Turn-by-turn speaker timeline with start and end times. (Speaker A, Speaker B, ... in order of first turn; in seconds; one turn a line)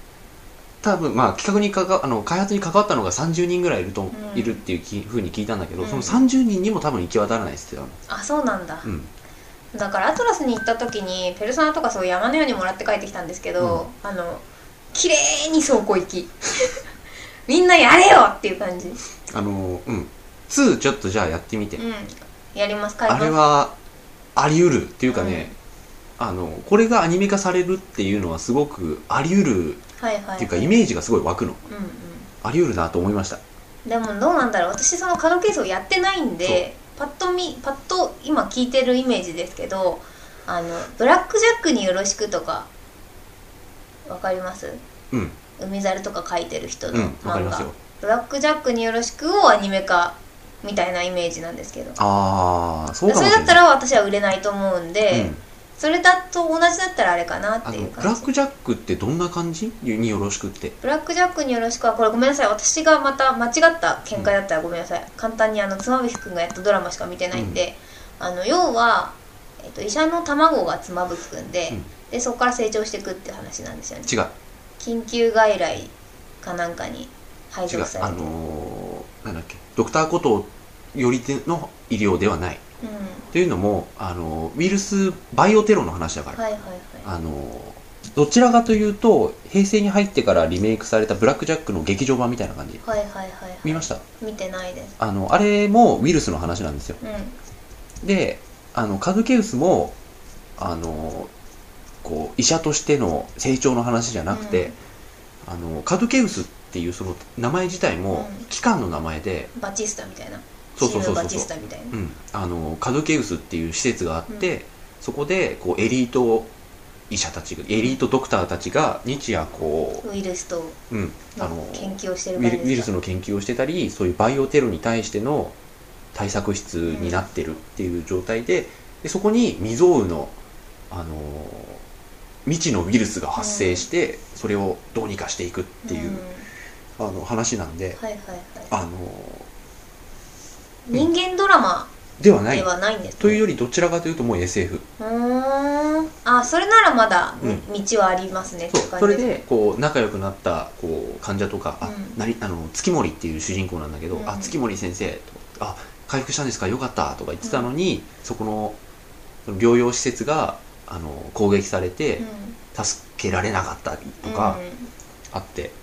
Speaker A: 0.8-8.0
Speaker B: 4.1-4.6
Speaker B: 5.8-6.2
Speaker B: 8.1-8.9
Speaker A: 8.8-9.1
Speaker B: 9.7-16.8
Speaker B: 17.5-19.0
Speaker A: 19.3-21.8
Speaker B: 21.8-23.4
Speaker A: 23.1-23.7
Speaker A: 24.3-25.5
Speaker B: 25.1-25.5
Speaker A: 26.2-29.8
Speaker B: 30.0-30.8
Speaker A: 30.4-31.6
Speaker B: 31.7-32.3
Speaker A: 32.4-33.4
Speaker B: 33.8-42.7
Speaker B: 44.0-44.8
Speaker A: 45.1-45.4
Speaker B: 45.6-52.0
Speaker A: 46.9-47.8
Speaker A: 52.0-53.6
Speaker B: 53.1-58.3
Speaker A: 55.1-55.4
Speaker A: 57.6-60.8
Speaker B: 60.8-74.1
Speaker A: 67.3-67.6
Speaker A: 74.0-74.3
Speaker B: 74.8-78.3
Speaker A: 77.7-82.6
Speaker B: 82.8-83.3
Speaker A: 83.3-86.4
Speaker B: 86.3-87.1
Speaker A: 87.0-92.8
Speaker B: 92.8-94.9
Speaker A: 93.6-94.0
Speaker A: 95.0-97.0
Speaker B: 97.0-97.3
Speaker A: 98.0-100.0
Speaker A: 100.6-101.3
Speaker A: 102.0-104.7
Speaker B: 104.3-104.7
Speaker A: 105.4-109.5
Speaker B: 108.1-108.5
Speaker B: 109.5-112.0
Speaker A: 110.8-116.5
Speaker A: 117.1-120.0
Speaker B: 120.0-120.8
Speaker A: 120.9-125.5
Speaker B: 121.3-122.9
Speaker A: 126.1-130.3
Speaker B: 126.9-127.2
Speaker A: 130.9-131.8
Speaker A: 132.4-136.2
Speaker B: 133.3-133.8
Speaker B: 135.8-136.5
Speaker A: 137.0-138.0
Speaker B: 138.0-138.7
Speaker A: 138.7-139.5
Speaker B: 140.9-141.9
Speaker A: 142.2-144.8
Speaker B: 142.5-143.4
Speaker B: 145.0-149.4
Speaker A: 148.7-158.8
Speaker B: 151.8-152.2
Speaker B: 154.1-154.5
Speaker A: 159.4-164.6
Speaker B: 162.2-162.6
Speaker B: 164.2-164.9
Speaker A: 165.3-165.7